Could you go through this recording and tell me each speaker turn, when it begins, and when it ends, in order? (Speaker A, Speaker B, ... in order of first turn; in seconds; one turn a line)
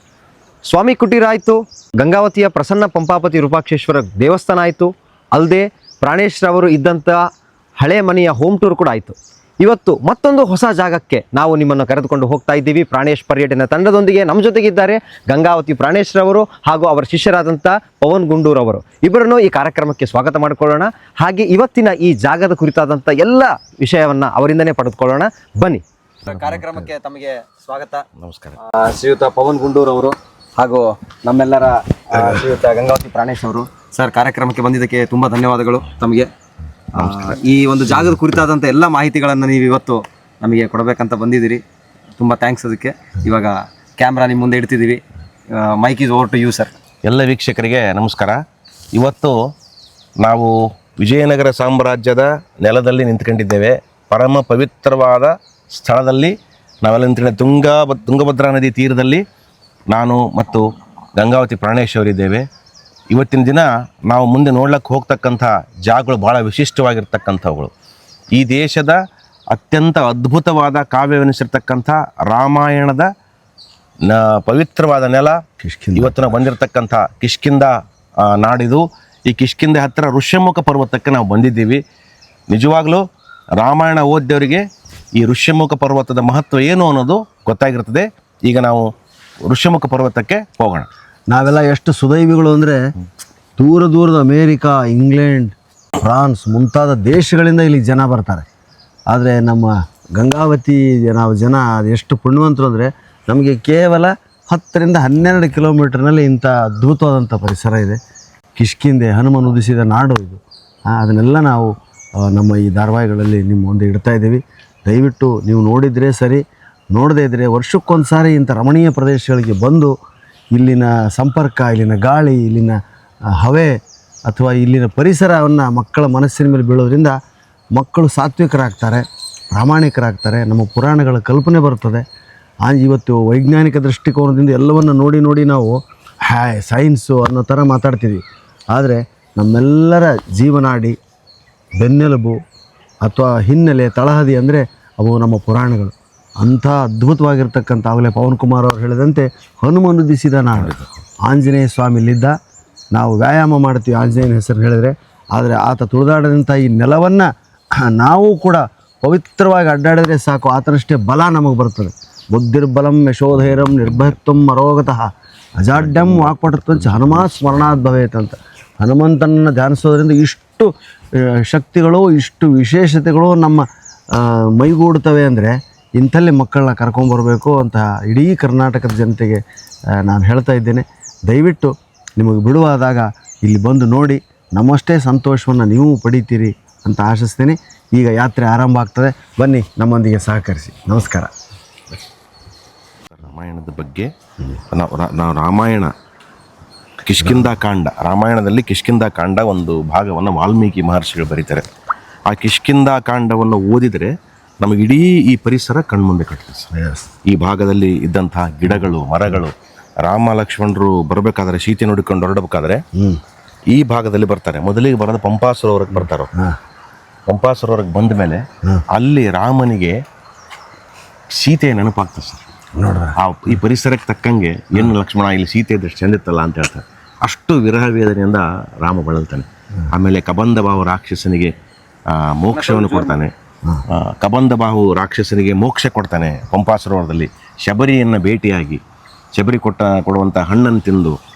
Speaker A: 0.6-7.2
Speaker A: 7.8-28.0
Speaker B: 28.2-28.6
Speaker A: 28.6-36.3
Speaker A: 37.0-41.6
Speaker B: 37.0-37.4
Speaker A: 42.2-45.0
Speaker A: 45.5-46.7
Speaker B: 47.0-48.4
Speaker B: 49.0-49.4
Speaker B: 50.2-59.2
Speaker B: 59.9-60.6
Speaker B: 61.2-62.4
Speaker B: 63.1-67.7
Speaker B: 68.4-69.0
Speaker B: 69.5-73.1
Speaker B: 74.1-75.4
Speaker C: 75.6-76.4
Speaker B: 76.0-77.7
Speaker B: 78.2-81.8
Speaker B: 82.5-83.0
Speaker B: 83.6-84.6
Speaker B: 85.2-88.9
Speaker B: 89.5-90.9
Speaker C: 91.3-92.8
Speaker C: 93.6-98.4
Speaker C: 99.1-108.0
Speaker C: 108.6-116.4
Speaker C: 116.9-119.9
Speaker C: 120.5-122.8
Speaker C: 123.3-123.8
Speaker C: 124.3-127.2
Speaker C: 127.8-132.0
Speaker C: 132.7-141.0
Speaker C: 141.8-142.4
Speaker C: 143.0-152.3
Speaker B: 150.5-150.9
Speaker C: 152.9-157.3
Speaker C: 157.8-165.1
Speaker C: 165.6-170.7
Speaker B: 165.8-167.2
Speaker C: 171.5-179.4
Speaker C: 180.0-191.3
Speaker B: 193.2-194.1
Speaker B: 194.7-195.9
Speaker B: 197.0-201.7
Speaker C: 197.2-197.5
Speaker B: 202.3-206.7
Speaker C: 206.7-207.1
Speaker B: 207.3-209.5
Speaker C: 208.7-209.4
Speaker B: 210.0-212.8
Speaker B: 213.7-216.3
Speaker C: 216.0-216.6
Speaker B: 217.3-218.4
Speaker B: 218.9-220.0
Speaker B: 221.4-222.4
Speaker C: 222.8-223.2
Speaker B: 223.2-231.5
Speaker B: 232.2-233.3
Speaker A: 232.5-233.2
Speaker B: 233.9-238.8
Speaker B: 239.3-241.2